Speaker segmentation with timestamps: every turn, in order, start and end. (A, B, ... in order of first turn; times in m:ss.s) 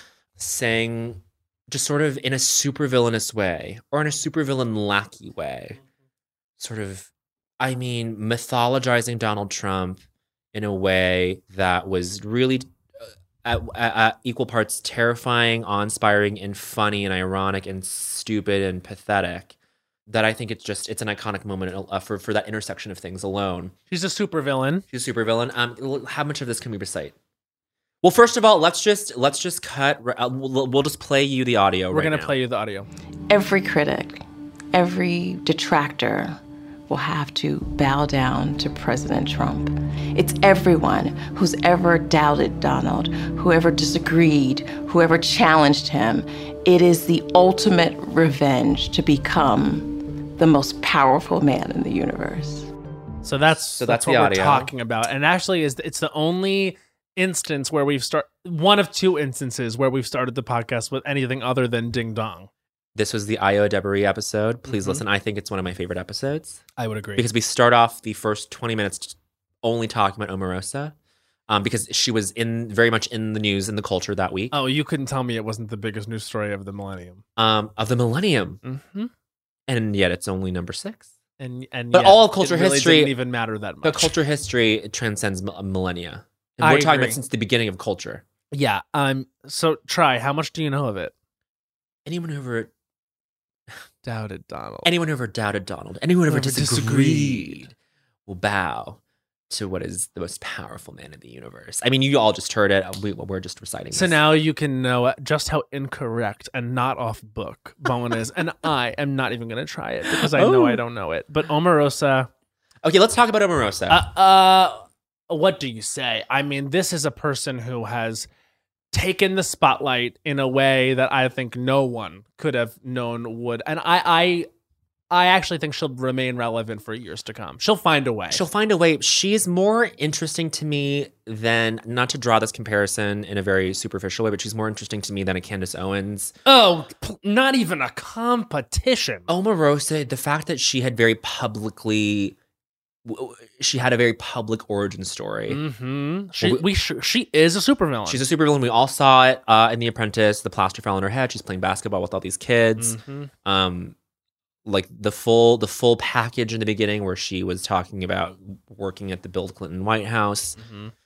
0:00.4-0:05.8 A
0:06.6-0:10.0 A
0:10.5-0:12.7 A
0:13.4-0:19.6 A
0:20.1-0:23.7 A
0:23.9-0:24.8 B
0:24.9-0:27.2 A
0:28.0-0:32.4 A
0:31.9-0:32.9 B
0:33.3-0:34.2 C
0:34.7-0:36.4 C
0:36.9-0:52.7 C
0:53.2-1:02.5 B
0:53.8-0:54.7 A
1:02.9-1:06.6 A
1:04.7-1:05.0 B
1:06.8-1:07.3 B
1:07.2-1:10.9 A
1:11.5-1:14.5 A
1:14.5-1:17.2 B
1:17.4-1:18.6 A
1:18.6-1:19.1 B
1:19.7-1:21.1 A
1:21.4-1:24.1 B
1:21.9-1:23.2 A
1:23.8-1:28.2 A
1:26.6-1:27.2 B
1:28.5-1:31.1 B
1:32.1-1:32.7 A
1:34.0-1:34.9 B
1:34.8-1:37.7 A
1:36.3-1:37.6 B
1:38.3-1:44.2 A
1:43.9-1:52.3 B
1:50.2-1:50.8 A
1:52.8-1:54.0 A
1:53.9-1:58.3 B
1:58.9-2:04.5 B
2:05.1-2:08.4 B
2:08.3-2:16.3 A
2:16.4-2:19.3 B
2:19.3-2:22.4 A
2:23.0-2:25.6 A
2:25.5-2:28.2 B
2:26.4-2:26.6 A
2:28.1-2:33.9 A
2:32.8-2:33.3 B
2:34.6-2:40.6 A
2:40.6-2:40.9 B